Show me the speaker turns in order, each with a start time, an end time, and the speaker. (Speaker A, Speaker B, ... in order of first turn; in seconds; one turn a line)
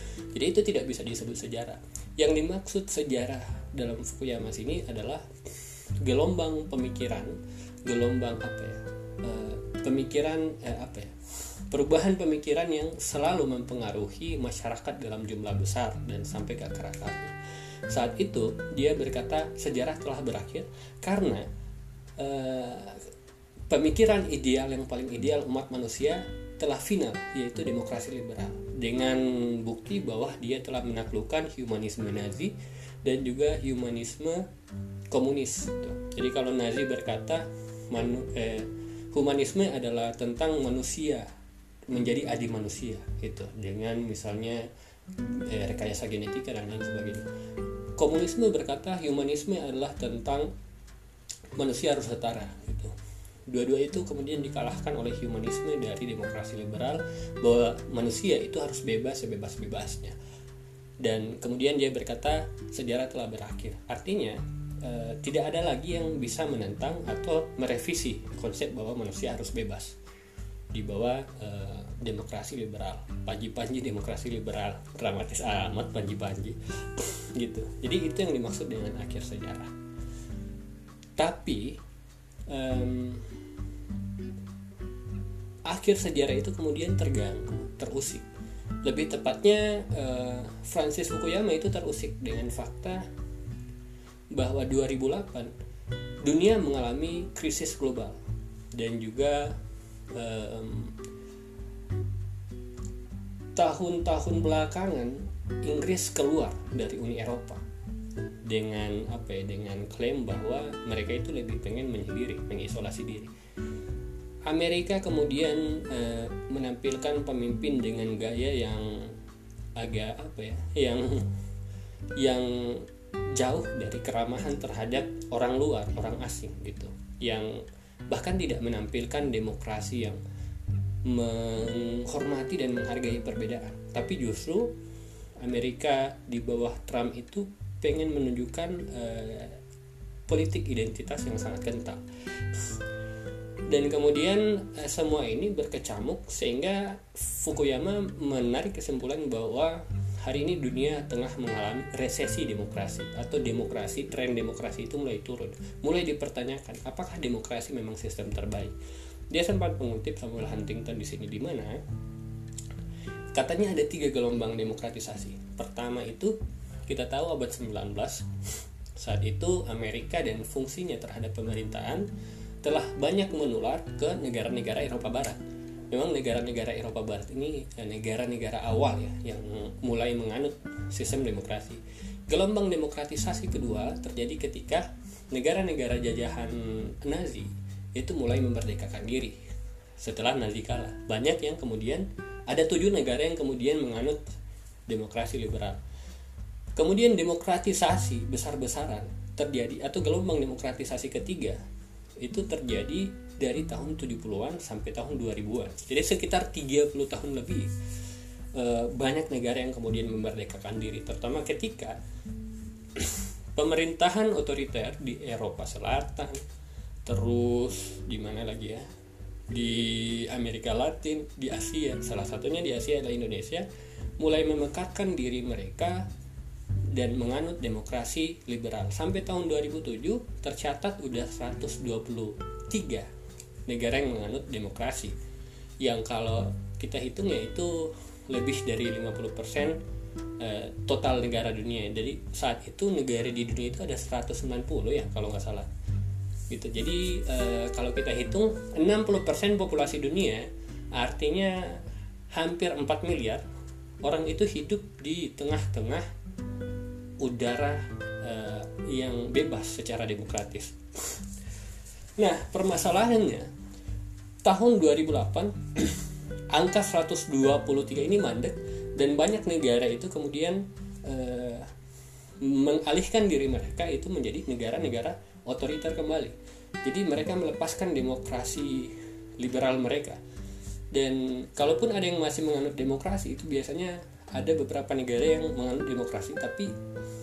Speaker A: 0.3-5.2
Speaker A: 6.0-11.2
Speaker A: 11.7-17.3
Speaker A: 17.9-21.4
Speaker A: 22.2-23.1
Speaker A: 23.7-34.5
Speaker A: 35.1-41.3
Speaker A: 41.9-44.7
Speaker A: 45.2-47.2
Speaker A: 48.0-50.5
Speaker A: 51.6-52.9
Speaker A: 53.5-60.2
Speaker A: 61.0-70.0
Speaker A: 70.7-79.7
Speaker A: 81.2-81.8
Speaker A: 82.5-83.3
Speaker A: 85.7-88.2
Speaker A: 88.8-93.0
Speaker A: 94.3-95.5
Speaker A: 96.2-98.2
Speaker A: 98.7-99.5
Speaker A: 100.1-101.0
Speaker A: 103.5-107.6
Speaker A: 108.5-113.3
Speaker A: 114.5-119.2
Speaker A: 119.8-121.3
Speaker A: 122.2-127.6
Speaker A: 128.1-130.2
Speaker A: 131.0-134.8
Speaker A: 135.4-139.6
Speaker A: 140.3-142.0
Speaker A: 143.7-158.7
Speaker A: 159.3-161.8
Speaker A: 163.3-166.3
Speaker A: 166.9-168.3
Speaker A: 169.0-172.1
Speaker A: 172.6-175.4
Speaker A: 175.9-189.4
Speaker A: 190.0-194.2
Speaker A: 194.9-195.8
Speaker A: 196.7-201.6
Speaker A: 202.2-207.7
Speaker A: 208.5-212.0
Speaker A: 212.9-216.4
Speaker A: 217.1-218.8
Speaker A: 219.5-223.7
Speaker A: 224.2-226.1
Speaker A: 226.9-233.1
Speaker A: 233.7-235.2
Speaker A: 235.8-239.8
Speaker A: 240.4-245.7
Speaker A: 246.5-253.4
Speaker A: 254.0-256.1
Speaker A: 257.2-261.2
Speaker A: 262.2-263.5
Speaker A: 264.4-271.7
Speaker A: 272.4-280.2
Speaker A: 280.9-286.7